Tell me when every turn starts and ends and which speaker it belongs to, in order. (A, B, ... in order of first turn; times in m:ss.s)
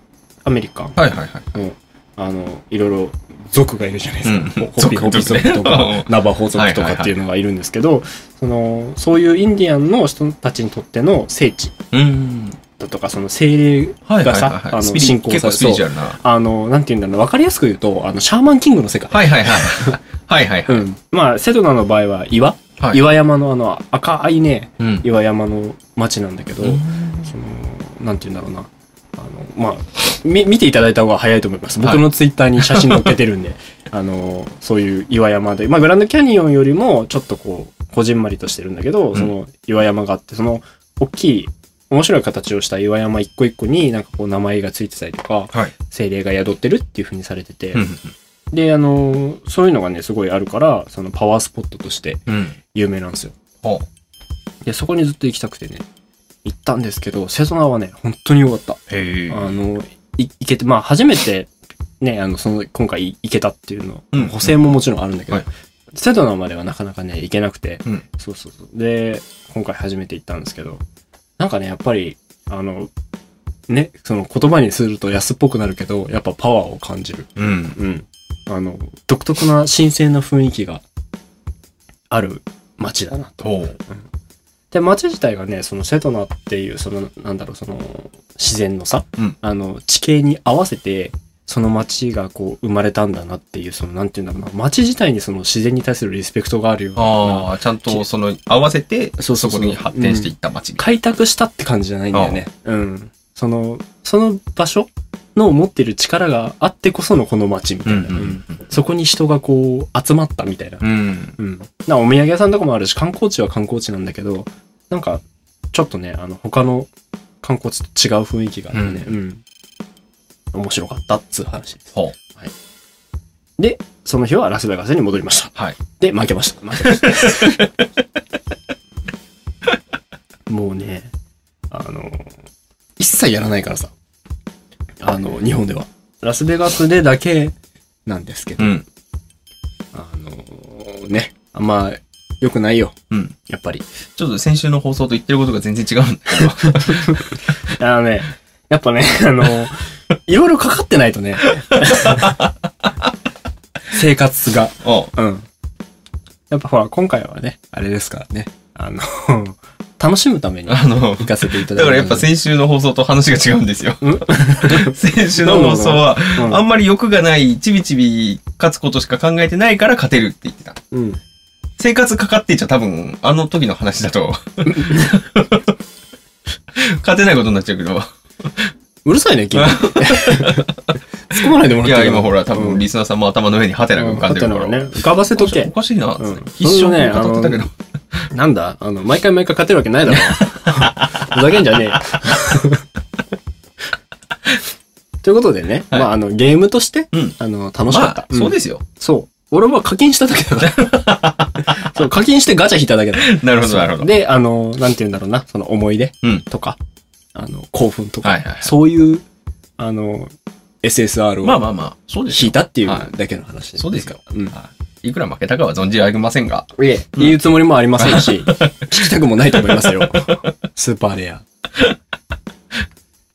0:00.4-0:01.0 A
0:01.0-0:01.5 B
0:01.5-0:11.8 A
0:04.2-0:07.2 B
0:11.9-0:12.6 B
0:12.8-0:20.0 A
0:14.1-0:16.2 B
0:19.1-0:20.8 B
0:20.7-0:47.8 A
0:24.8-0:25.0 B
0:26.6-0:27.3 B
0:32.6-0:33.2 B
0:47.8-0:48.1 B
0:48.5-0:53.4 A
0:52.3-0:52.6 B
0:54.6-0:55.8 A
0:56.4-1:10.8 A
0:58.9-0:59.5 B
1:04.1-1:04.5 B
1:11.4-1:12.9 A
1:13.7-1:20.8 A
1:17.4-1:17.8 B
1:22.1-1:24.0 A
1:23.4-1:23.8 B
1:24.7-1:38.0 A
1:37.0-1:40.8 B
1:39.2-1:50.8 A
1:42.1-1:42.4 B
1:47.9-1:48.6 B
1:50.8-1:51.4 B
1:51.4-1:55.2 A
1:55.7-1:56.9 A
1:57.4-1:59.4 A
1:58.7-1:59.1 B
2:00.5-2:02.5 A
2:03.6-2:07.6 A
2:06.8-2:07.6 B
2:10.5-2:11.1 A
2:11.7-2:12.3 A
2:13.0-2:13.9 A
2:15.0-2:17.6 A
2:18.1-2:18.8 A
2:18.6-2:18.8 B
2:19.9-2:23.8 A
2:24.2-2:27.4 B
2:26.6-2:32.4 A
2:31.8-2:33.1 B
2:33.9-2:35.5 A
2:34.8-2:35.1 B
2:36.5-2:42.3 A
2:40.7-2:50.8 B
2:44.0-2:46.6 A
2:50.9-2:51.2 A
2:51.8-2:55.7 B
2:54.6-2:55.2 A
2:56.8-2:58.7 B
2:59.0-3:00.7 A
2:59.6-3:00.7 B
3:01.2-3:02.8 A
3:01.4-3:07.7 B
3:04.0-3:07.7 A
3:08.3-3:12.8 A
3:10.1-3:11.4 B
3:15.2-3:21.0 A
3:17.9-3:18.8 B
3:20.6-3:21.9 B
3:21.7-3:26.8 A
3:23.2-3:24.2 B
3:27.4-3:29.2 A
3:28.2-3:28.7 B
3:29.8-3:30.3 A
3:30.8-3:31.6 A
3:31.4-3:33.1 B
3:32.3-3:34.6 A
3:33.8-3:37.4 B
3:36.8-3:41.4 A
3:38.0-3:38.8 B
3:39.6-3:40.4 B